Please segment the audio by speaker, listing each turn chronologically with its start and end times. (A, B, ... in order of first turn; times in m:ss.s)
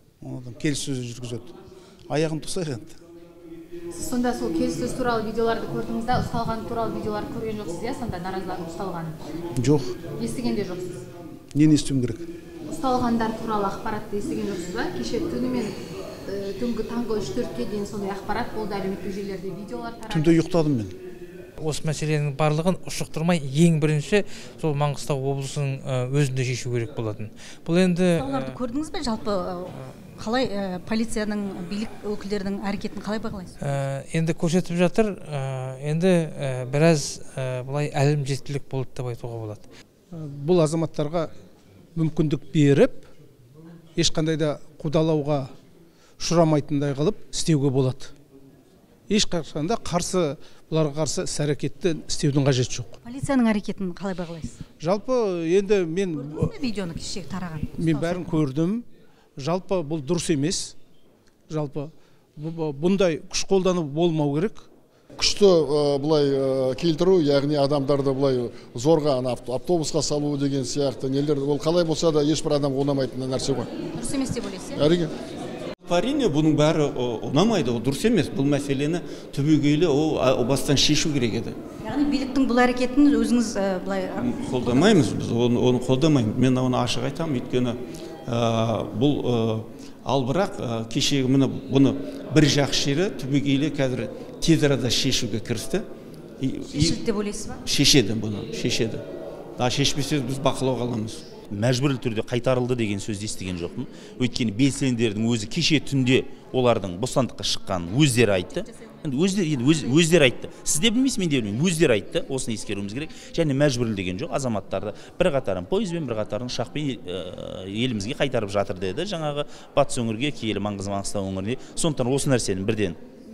0:00.2-0:01.5 A
0:02.1-0:03.0 A
0:04.0-0:09.2 B
0:09.6-0:09.9 A
0:10.2-0:11.0 B
0:11.5-0:12.3 A
0:12.7-0:15.7 B
0:16.3-0:20.4 B
0:20.1-0:21.0 A
0:21.6-0:28.6 C
0:28.2-0:33.6 D
0:33.6-0:39.7 C
0:40.1-0:41.3 E
0:41.9-0:43.1 E
0:44.0-0:45.5 E
0:46.2-0:48.1 E
0:49.1-0:53.0 E
0:53.0-0:54.6 D
0:54.8-0:56.6 E
0:56.1-0:58.3 D
0:57.7-0:58.8 E
0:59.4-1:00.7 E
1:01.5-1:04.7 E
1:05.2-1:13.7 F
1:14.0-1:14.9 D
1:14.8-1:15.1 F
1:15.9-1:21.6 G
1:21.8-1:25.0 D
1:24.2-1:35.8 G
1:36.4-1:37.0 G
1:36.7-1:37.6 D
1:37.6-1:39.0 G
1:39.6-1:41.2 G
1:41.5-2:03.0 H